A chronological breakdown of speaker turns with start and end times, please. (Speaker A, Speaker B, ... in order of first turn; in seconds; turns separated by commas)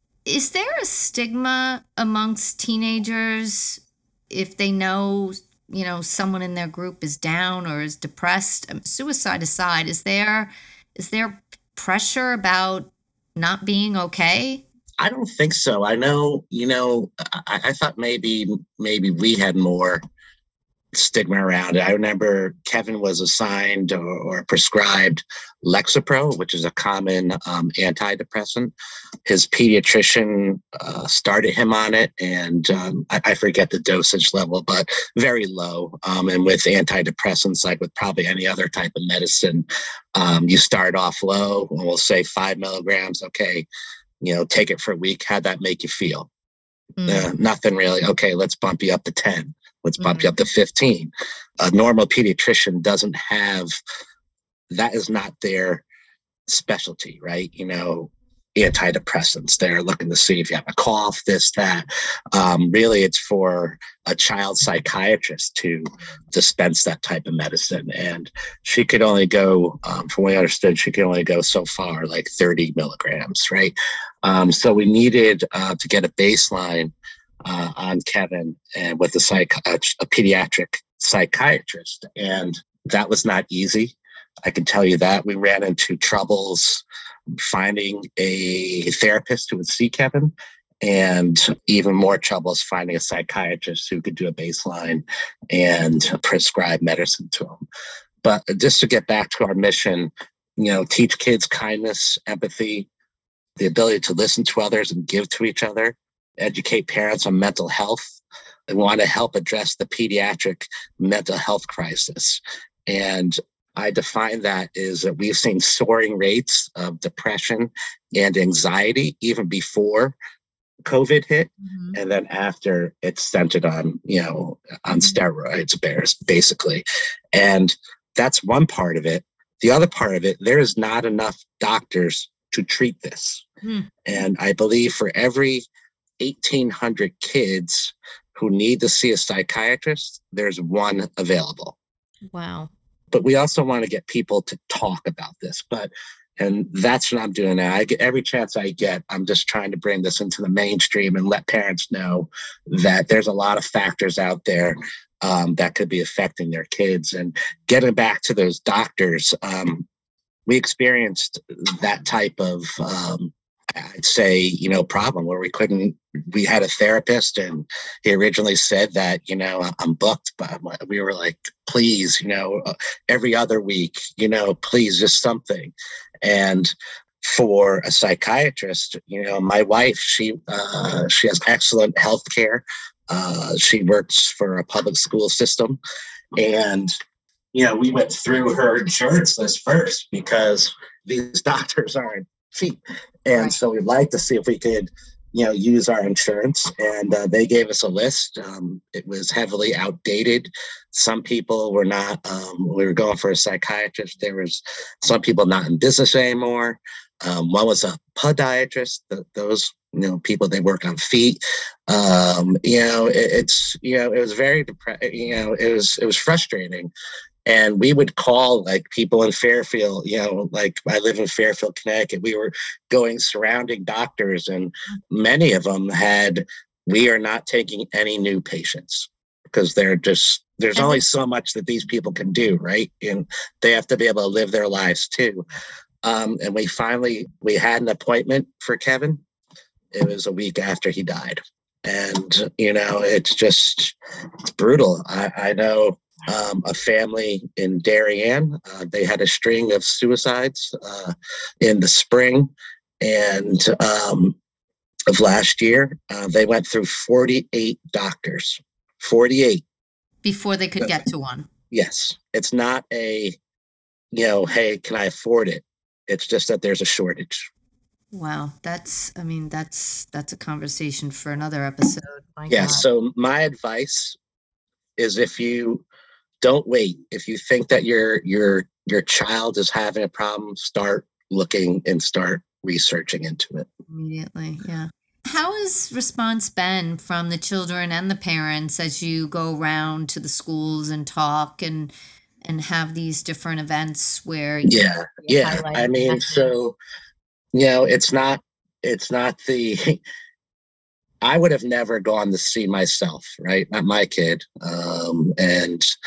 Speaker A: 0.2-14.6, Speaker B: 15.0-20.0, Speaker B: 20.9-28.7, Speaker B: 29.2-43.7, Speaker B: 44.2-46.3, Speaker A: 47.0-47.3, Speaker B: 47.0-53.7, Speaker A: 50.0-50.3, Speaker B: 54.7-55.8, Speaker B: 56.5-76.9, Speaker B: 77.4-86.8, Speaker B: 87.4-97.6, Speaker B: 98.2-102.9, Speaker B: 103.6-108.1, Speaker B: 108.7-120.1, Speaker B: 120.8-126.8, Speaker A: 121.6-122.0, Speaker A: 124.9-125.2, Speaker B: 127.3-133.4, Speaker A: 133.6-133.9, Speaker B: 134.0-135.7, Speaker B: 136.2-141.8, Speaker A: 142.3-142.7, Speaker B: 143.1-159.8, Speaker B: 160.5-185.8, Speaker B: 186.4-186.9, Speaker B: 187.5-216.9, Speaker B: 217.4-235.4, Speaker A: 230.8-231.0, Speaker B: 236.0-239.2, Speaker B: 239.9-243.9, Speaker B: 244.6-252.5, Speaker B: 253.0-254.3, Speaker B: 255.1-259.6, Speaker A: 260.2-261.5, Speaker B: 261.7-263.4, Speaker B: 264.1-267.5, Speaker A: 268.1-272.9, Speaker B: 272.5-274.1, Speaker B: 275.0-275.8, Speaker B: 276.4-283.7, Speaker A: 283.9-291.9, Speaker A: 292.4-296.5, Speaker B: 294.6-296.8, Speaker B: 297.5-300.0, Speaker B: 301.2-305.9